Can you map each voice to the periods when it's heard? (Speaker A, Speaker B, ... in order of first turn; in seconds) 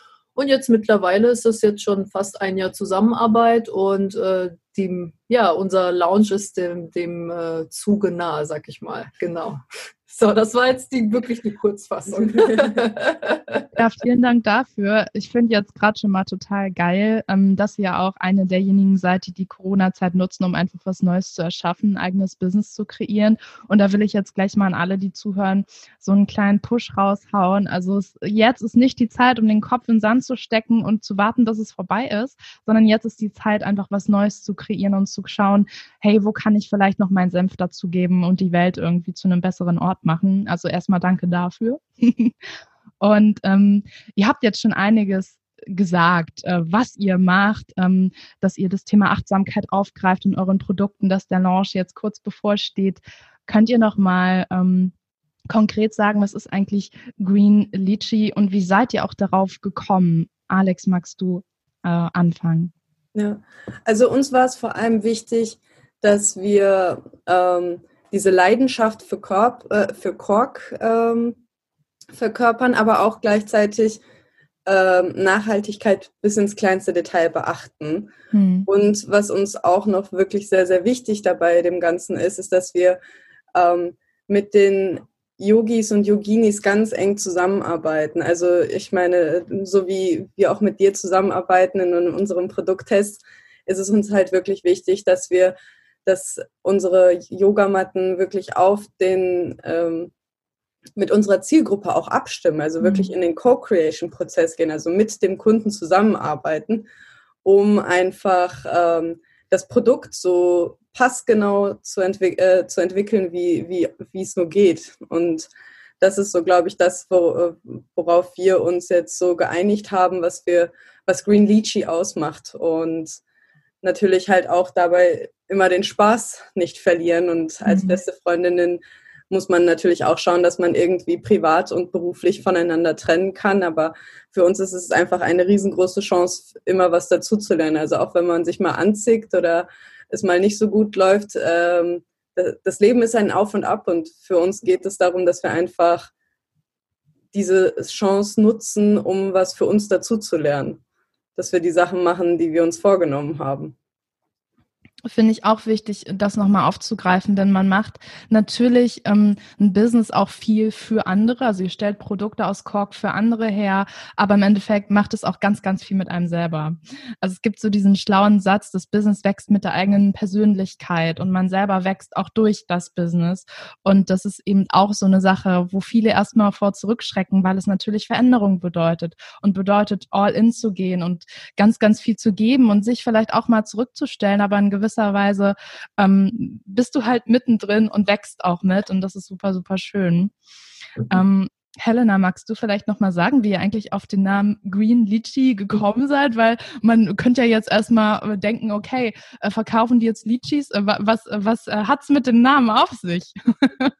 Speaker A: 0.4-13.6
Speaker B: 12.1-12.8, 63.1-71.4, 72.1-74.0, 74.7-78.1, 78.7-83.0, 83.5-95.5, 96.1-100.1, 101.0-106.9, 107.4-123.2, 123.8-146.1, 147.3-150.8, 151.4-153.8
Speaker C: 13.8-42.4, 43.0-54.9, 55.5-62.7, 78.3-78.7, 102.8-103.1, 127.7-128.0, 155.1-190.3, 191.1-203.9